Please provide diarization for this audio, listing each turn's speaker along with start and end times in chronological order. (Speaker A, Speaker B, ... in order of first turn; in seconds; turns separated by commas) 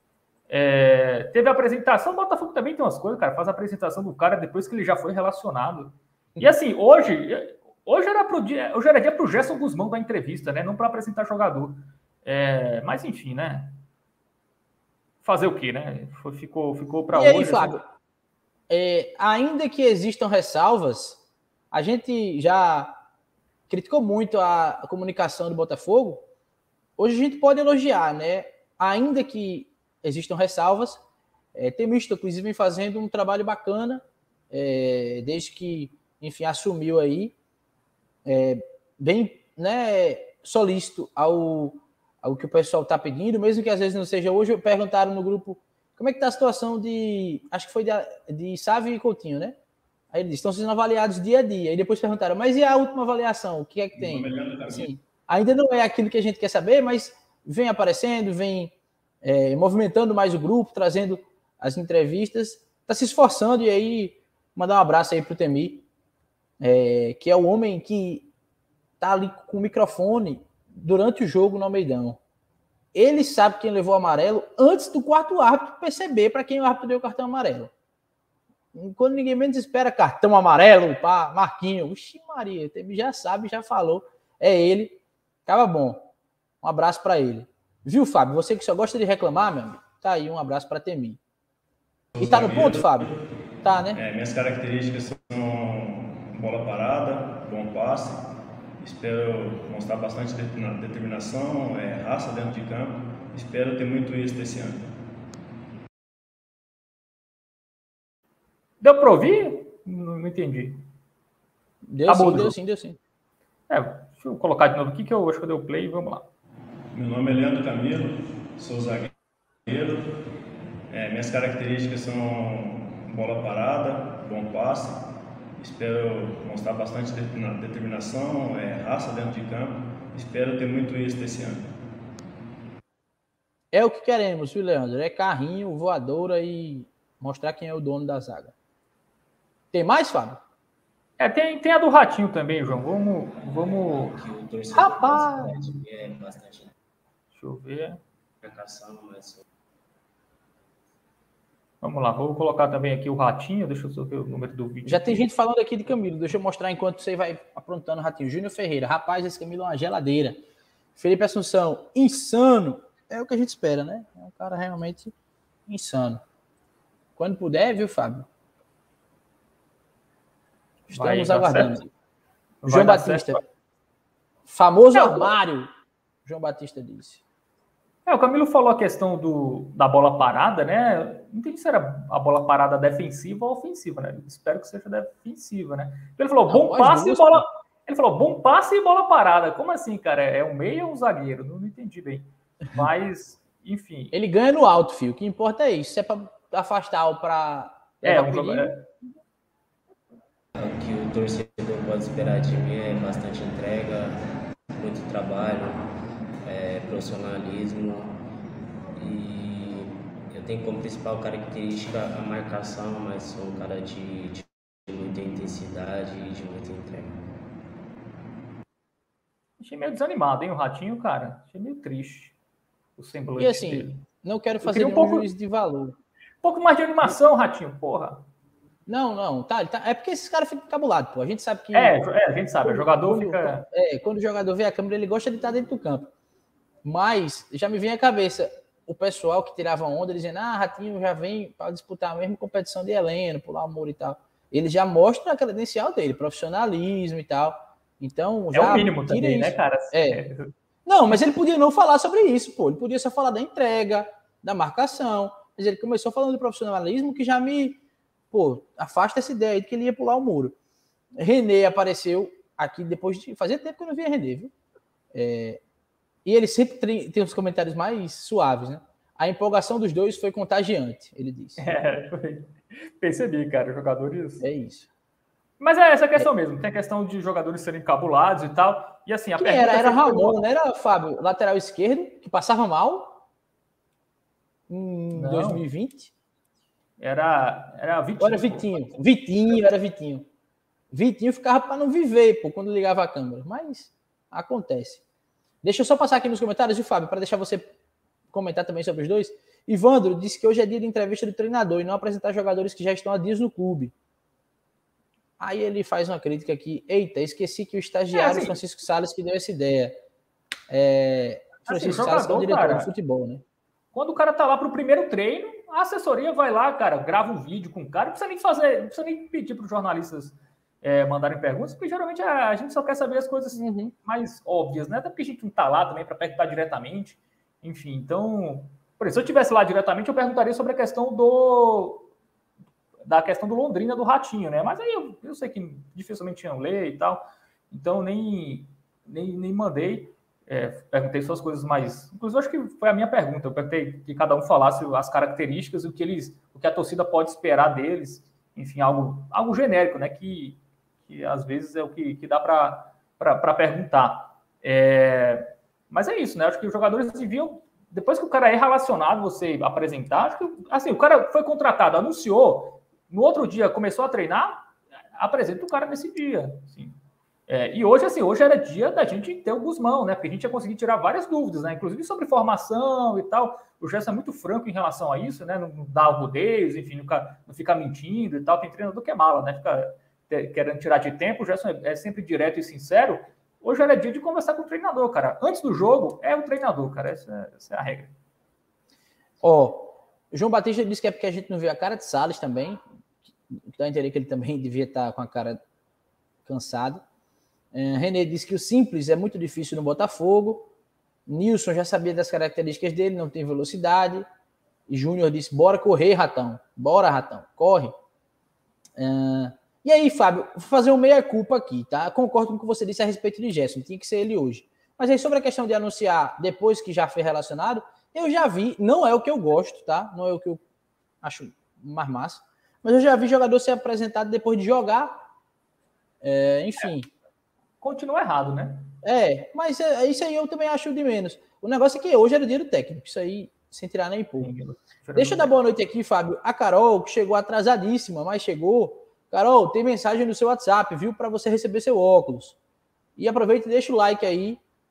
Speaker A: 0.5-13.8, Speaker A: 15.2-17.8, Speaker B: 17.1-17.9, Speaker B: 18.7-21.2, Speaker B: 21.7-23.0, Speaker B: 23.7-26.2, Speaker B: 27.0-31.0, Speaker B: 31.6-37.3, Speaker B: 38.2-49.6, Speaker B: 50.1-58.7, Speaker C: 54.0-54.9, Speaker B: 59.2-65.8, Speaker B: 66.6-68.3, Speaker B: 69.0-72.2, Speaker B: 72.9-77.7, Speaker B: 78.7-86.1, Speaker B: 86.6-91.2, Speaker C: 92.2-93.2, Speaker B: 92.2-93.1, Speaker B: 93.6-94.0, Speaker C: 93.9-98.2, Speaker C: 98.8-104.9, Speaker A: 108.8-110.8, Speaker B: 111.9-113.0, Speaker A: 112.1-112.6, Speaker A: 113.7-116.3, Speaker C: 116.9-119.1, Speaker C: 119.7-120.1, Speaker C: 120.9-125.0, Speaker C: 125.6-131.7, Speaker B: 133.7-138.6, Speaker B: 139.7-140.4, Speaker A: 141.2-144.2, Speaker D: 143.4-146.7, Speaker B: 144.7-145.5, Speaker A: 147.3-148.0, Speaker D: 148.4-149.4, Speaker A: 151.8-155.2, Speaker B: 154.8-160.4, Speaker B: 161.0-165.1, Speaker B: 165.7-166.2, Speaker B: 167.2-168.3, Speaker B: 170.9-171.9, Speaker A: 170.9-171.8, Speaker A: 172.6-173.4, Speaker B: 172.7-173.4, Speaker B: 174.5-175.7, Speaker A: 174.9-175.3, Speaker B: 176.3-177.2, Speaker A: 178.1-194.1, Speaker B: 186.5-187.4, Speaker B: 194.1-198.8, Speaker A: 198.0-198.8, Speaker D: 200.6-204.2, Speaker D: 204.7-205.8, Speaker D: 206.4-208.1, Speaker D: 209.0-217.1, Speaker A: 219.6-222.3, Speaker A: 223.0-224.0, Speaker B: 223.4-226.0, Speaker A: 224.6-225.3, Speaker A: 226.4-228.2, Speaker B: 228.9-232.0, Speaker A: 231.7-233.7, Speaker B: 232.6-236.1, Speaker B: 236.8-250.2, Speaker A: 248.5-250.5, Speaker B: 250.9-257.8, Speaker B: 258.3-260.6, Speaker B: 261.2-264.5, Speaker B: 265.1-265.6, Speaker B: 266.2-271.7, Speaker A: 271.6-274.4, Speaker B: 274.4-274.9, Speaker A: 275.6-280.4, Speaker B: 279.4-283.2, Speaker B: 284.7-286.1, Speaker A: 285.1-285.6, Speaker A: 287.0-288.8, Speaker B: 288.2-290.3, Speaker B: 290.9-295.0, Speaker B: 295.6-297.7, Speaker B: 298.3-303.9, Speaker B: 305.4-310.0, Speaker A: 308.1-308.6, Speaker B: 310.7-313.4, Speaker A: 311.7-312.9, Speaker A: 313.9-332.1, Speaker B: 323.5-323.9, Speaker A: 333.0-388.1, Speaker B: 389.4-392.8, Speaker B: 393.5-395.6, Speaker B: 396.4-397.0, Speaker B: 397.7-400.7, Speaker B: 401.3-404.2, Speaker B: 404.9-407.9, Speaker B: 409.0-420.6, Speaker B: 421.2-425.2, Speaker B: 426.2-427.1, Speaker A: 427.8-428.9, Speaker B: 429.0-434.5, Speaker A: 434.4-435.5, Speaker B: 435.2-442.6, Speaker B: 443.2-444.6